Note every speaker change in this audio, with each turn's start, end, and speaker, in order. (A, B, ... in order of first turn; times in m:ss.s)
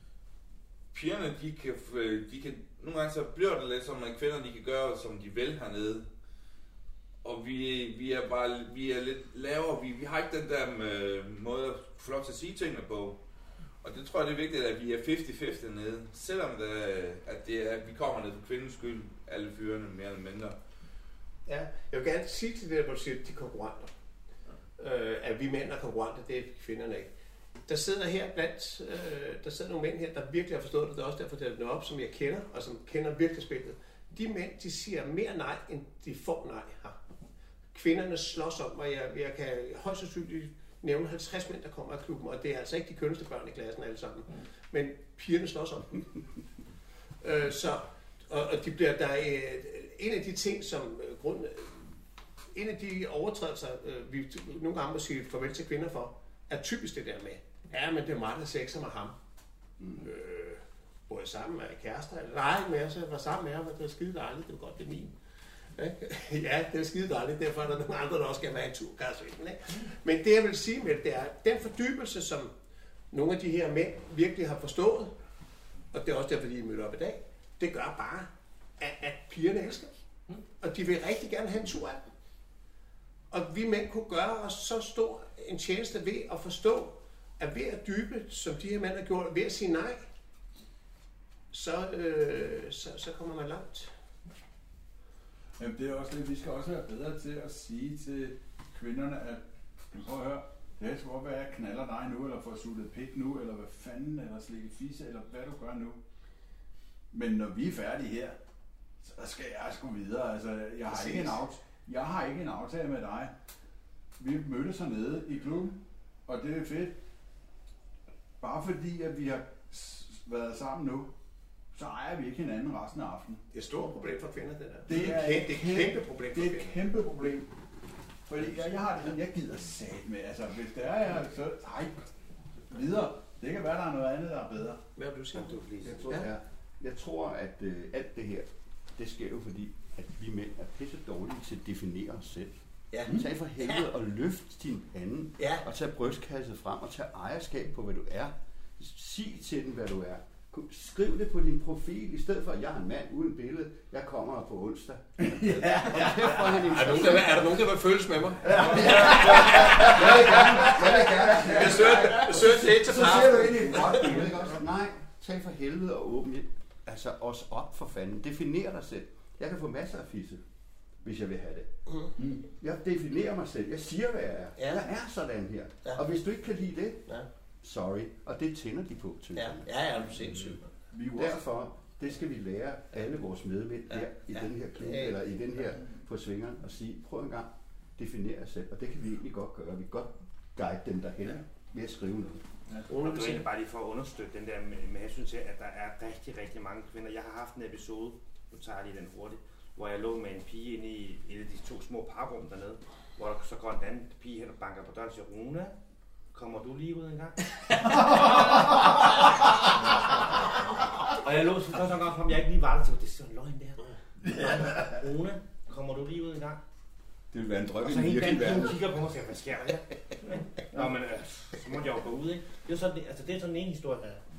0:00.9-0:06.1 A
0:07.2-0:13.2 A
0:13.8-0:20.6 A
0:21.5-0:23.9 B
0:24.8-0:27.1 B
0:27.7-0:37.0 B
0:37.7-0:46.1 B
0:47.2-0:51.9 B
0:52.5-0:59.1 B
0:59.8-1:00.0 C
1:00.0-1:05.1 B
1:05.7-1:12.5 B
1:13.1-1:15.1 B
1:15.9-1:19.9 B
1:20.6-1:22.0 B
1:23.3-1:30.0 B
1:31.5-1:33.9 B
1:35.6-1:46.0 D
1:47.1-1:48.4 D
1:49.0-1:53.3 D
1:50.9-1:51.3 B
1:54.2-1:56.9 D
1:58.4-2:01.1 D
2:01.7-2:03.4 D
2:03.5-2:06.8 B
2:04.8-2:07.5 D
2:08.3-2:12.1 D
2:12.7-2:14.8 D
2:15.0-2:16.3 B
2:15.5-2:16.0 E
2:15.8-2:16.1 D
2:16.1-2:37.4 C
2:35.2-2:37.0 D
2:36.7-2:44.2 B
2:38.4-2:44.5 D
2:38.4-2:42.5 C
2:43.7-2:50.4 C
2:51.0-2:51.7 C
2:52.5-2:57.0 C
2:54.6-2:54.8 B
2:55.8-2:56.2 B
2:57.6-2:59.7 C
2:59.3-3:00.7 B
3:00.9-3:01.4 D
3:01.1-3:12.4 C
3:03.9-3:05.2 B
3:12.9-3:13.5 B
3:12.9-3:25.7 E
3:26.3-3:36.6 E
3:37.3-3:38.8 C
3:37.8-3:44.2 E